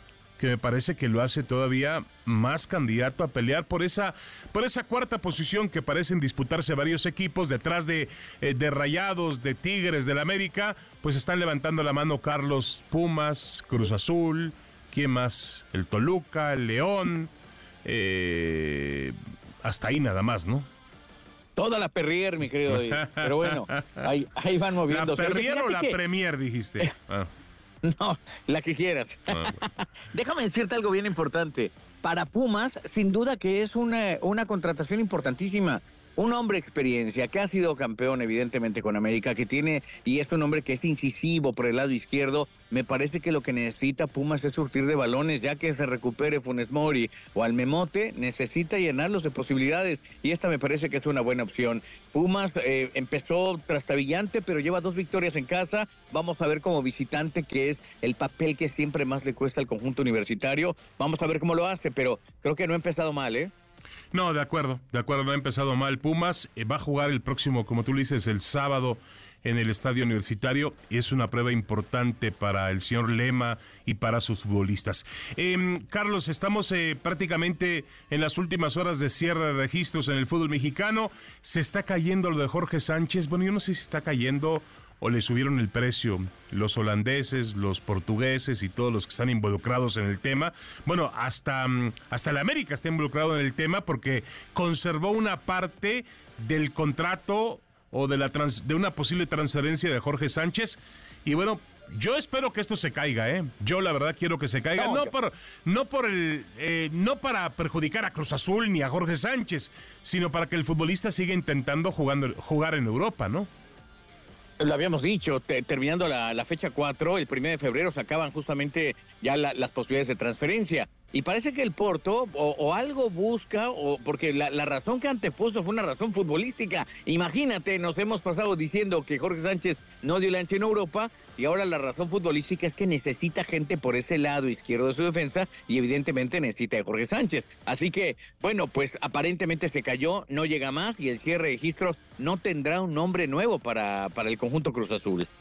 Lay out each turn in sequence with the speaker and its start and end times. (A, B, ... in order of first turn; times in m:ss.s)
0:00.4-0:17.3 A
0:17.8-0:20.7 A
0:21.6-0:26.0 B
0:22.7-0:24.1 A
0:24.9-0:27.3 A
0:27.8-1:03.5 B
0:29.3-0:29.6 A
1:04.1-1:53.5 A
1:44.8-1:45.1 B
1:54.6-2:25.3 B